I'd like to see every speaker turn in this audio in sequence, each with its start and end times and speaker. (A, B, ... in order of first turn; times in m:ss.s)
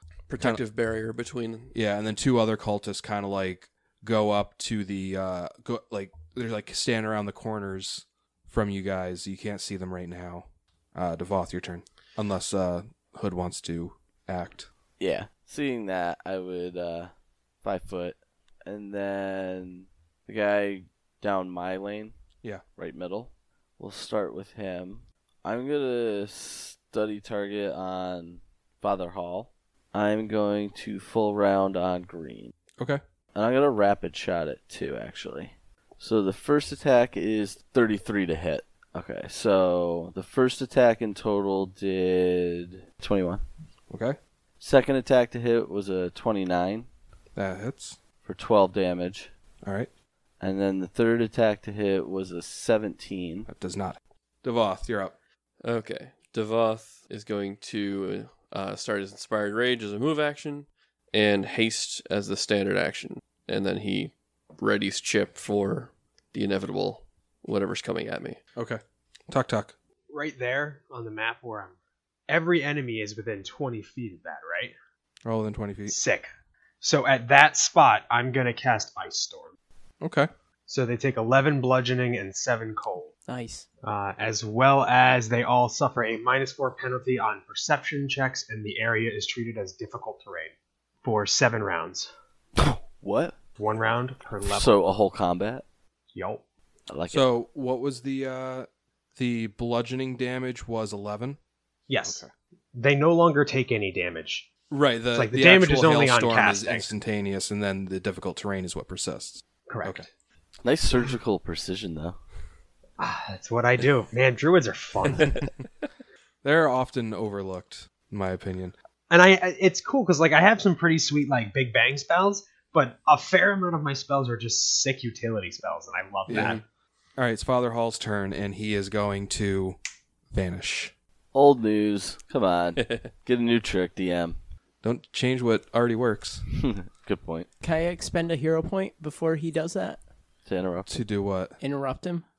0:00.3-0:01.7 A
0:01.7-0:14.7 B
0:15.0-0:17.1 C
0:17.6-0:22.2 C
0:22.8-0:32.5 C
0:33.3-0:43.4 C
0:43.9-0:44.2 B
0:44.6-0:46.9 C
0:47.3-0:48.0 B
0:48.2-0:49.3 C
0:49.6-0:49.9 B
0:50.4-0:53.5 C
0:53.5-0:55.1 B
0:55.6-1:08.4 A
1:08.6-1:09.8 B
1:10.1-1:11.7 D
1:12.3-1:14.7 D
1:15.2-1:16.0 B
1:15.9-1:16.3 D
1:16.8-1:19.6 D
1:20.0-1:20.3 B
1:20.7-1:23.1 D
1:23.3-1:23.6 E
1:23.8-1:32.1 D
1:32.6-1:33.4 C
1:33.6-1:34.8 D
1:34.4-1:35.6 C
1:36.1-1:36.4 D
1:36.9-1:37.3 C
1:37.1-1:41.4 B
1:41.9-1:42.2 D
1:42.0-1:42.3 B
1:42.7-1:44.5 D
1:44.7-1:50.0 B
1:45.1-1:46.9 D
1:49.7-1:50.1 D
1:50.6-1:52.2 C
1:53.0-1:55.4 D
1:56.4-1:58.7 B
1:59.1-2:06.6 D
2:06.3-2:06.6 B
2:07.2-2:09.8 B
2:10.3-2:10.9 B
2:11.3-2:14.4 C
2:12.8-2:13.1 A
2:14.8-2:16.4 B
2:16.5-2:17.5 C
2:17.6-2:20.0 E
2:20.4-2:20.9 C
2:20.9-2:21.6 B
2:21.6-2:22.2 E